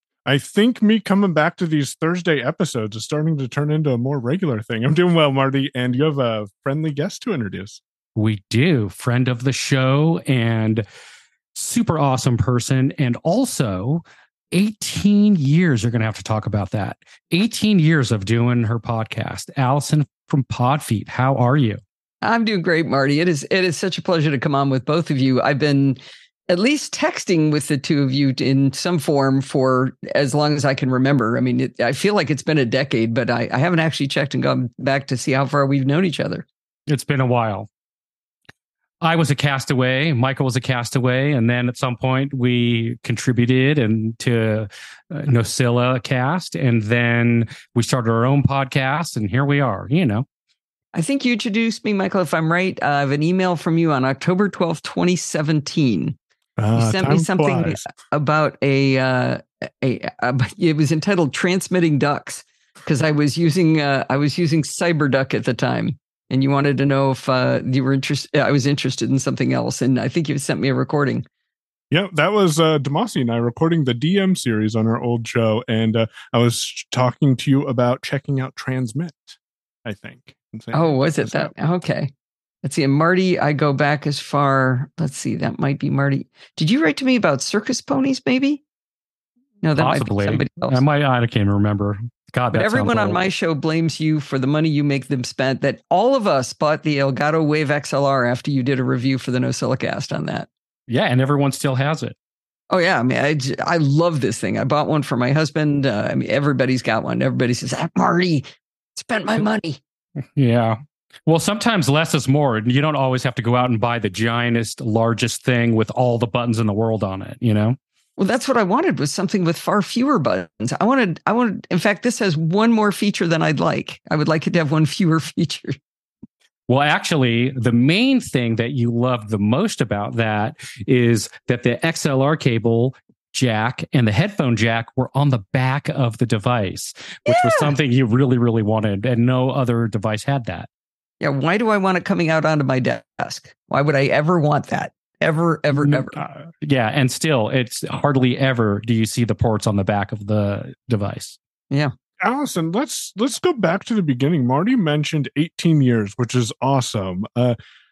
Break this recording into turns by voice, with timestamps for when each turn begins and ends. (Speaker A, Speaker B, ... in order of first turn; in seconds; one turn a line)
Speaker A: 0.3-7.8
Speaker B: 8.2-10.8
Speaker B: 11.6-21.8
Speaker C: 22.2-36.5
Speaker B: 36.9-37.7
Speaker B: 39.0-50.3
Speaker C: 51.0-56.2
Speaker A: 56.6-57.9
Speaker C: 56.8-71.2
Speaker A: 71.9-81.5
Speaker C: 80.7-82.1
Speaker C: 82.6-88.6
Speaker C: 89.6-90.8
Speaker B: 89.8-93.2
Speaker C: 92.5-100.5
Speaker B: 100.9-102.2
Speaker C: 102.7-108.5
Speaker C: 109.0-109.8
Speaker B: 110.4-117.8
Speaker C: 118.2-125.8
Speaker B: 126.7-140.7
Speaker C: 137.3-137.7
Speaker C: 141.2-146.2
Speaker A: 146.2-146.4
Speaker B: 146.6-151.4
Speaker A: 152.2-157.6